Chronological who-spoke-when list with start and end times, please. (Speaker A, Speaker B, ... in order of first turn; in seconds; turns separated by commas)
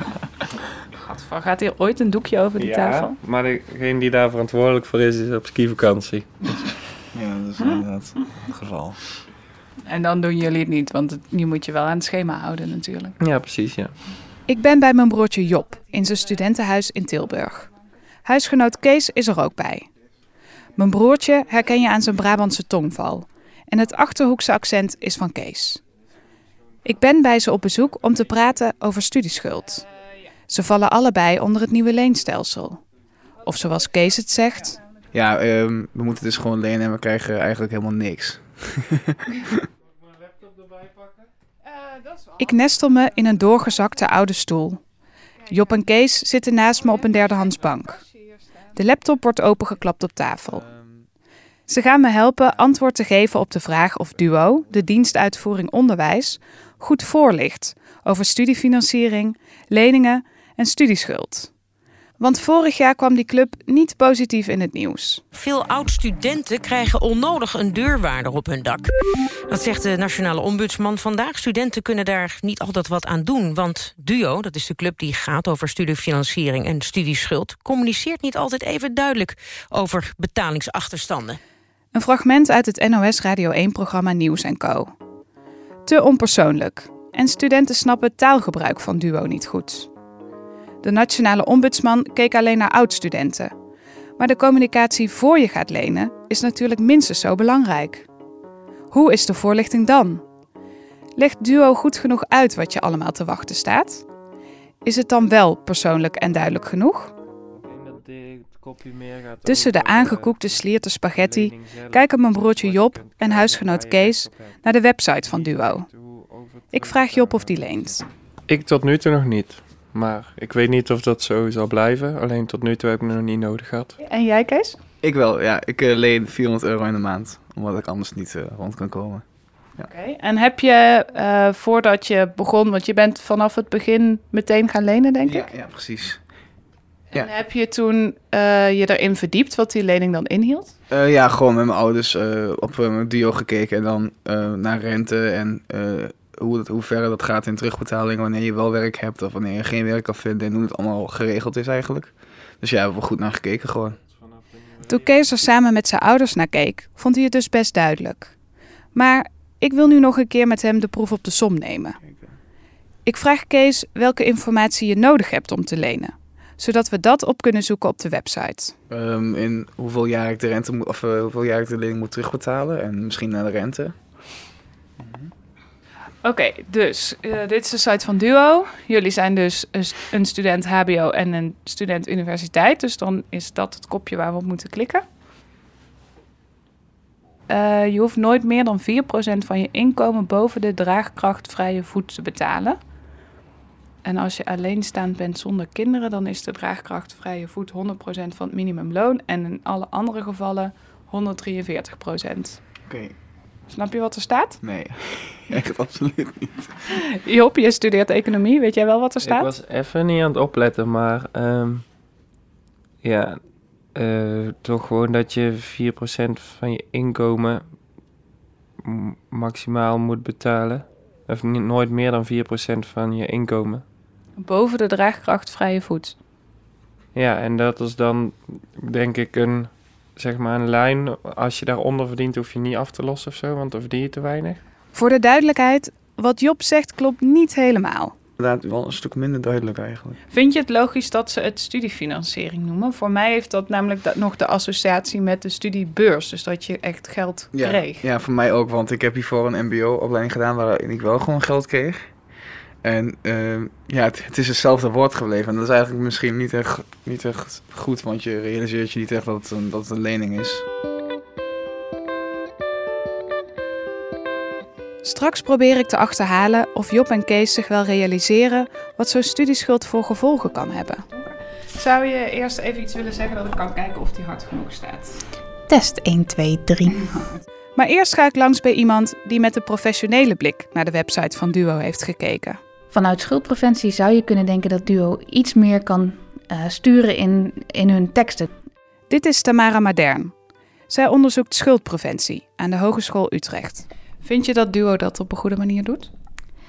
Speaker A: 1.0-3.2, Speaker B: 2.6-6.7, Speaker C: 7.1-9.2, Speaker A: 9.8-13.2, Speaker B: 13.2-13.9, Speaker A: 14.5-17.7, Speaker A: 18.2-19.9, Speaker A: 20.8-25.8, Speaker A: 26.8-29.8, Speaker A: 30.5-32.8, Speaker A: 33.4-34.8, Speaker C: 35.1-39.6, Speaker A: 42.4-44.8, Speaker A: 45.5-48.0, Speaker A: 48.7-50.6, Speaker C: 50.5-51.0, Speaker A: 51.7-61.5, Speaker A: 62.2-65.2, Speaker D: 65.3-68.9, Speaker D: 69.5-81.4, Speaker A: 81.9-84.9, Speaker A: 85.8-89.9, Speaker A: 90.8-93.5, Speaker A: 94.2-98.1, Speaker A: 98.9-100.2, Speaker A: 101.2-104.0, Speaker A: 104.8-107.1, Speaker B: 107.5-124.0, Speaker A: 109.4-115.9, Speaker A: 116.7-118.0, Speaker A: 124.0-124.8, Speaker C: 125.0-129.9, Speaker A: 129.8-135.5, Speaker C: 135.2-136.3, Speaker A: 137.1-140.7, Speaker C: 140.9-154.0, Speaker B: 154.0-155.3, Speaker A: 154.8-158.3, Speaker A: 158.9-162.0, Speaker C: 162.1-162.3, Speaker A: 163.0-168.7, Speaker C: 168.9-174.1, Speaker C: 175.0-175.3, Speaker A: 176.2-185.0, Speaker A: 187.5-192.8, Speaker A: 194.0-202.6, Speaker C: 202.8-203.1, Speaker A: 203.7-204.6, Speaker C: 204.6-206.8, Speaker A: 207.2-209.5, Speaker B: 209.2-211.8, Speaker B: 213.0-213.4, Speaker B: 213.9-217.7, Speaker B: 218.8-223.8, Speaker A: 224.4-226.2, Speaker B: 227.1-234.6, Speaker A: 234.9-238.1, Speaker C: 238.4-240.2, Speaker A: 240.3-248.0, Speaker C: 247.5-252.1, Speaker C: 252.8-260.6, Speaker A: 265.0-275.2, Speaker E: 275.7-277.0, Speaker A: 277.1-282.6, Speaker E: 282.9-288.5, Speaker A: 289.1-290.3, Speaker A: 290.9-296.1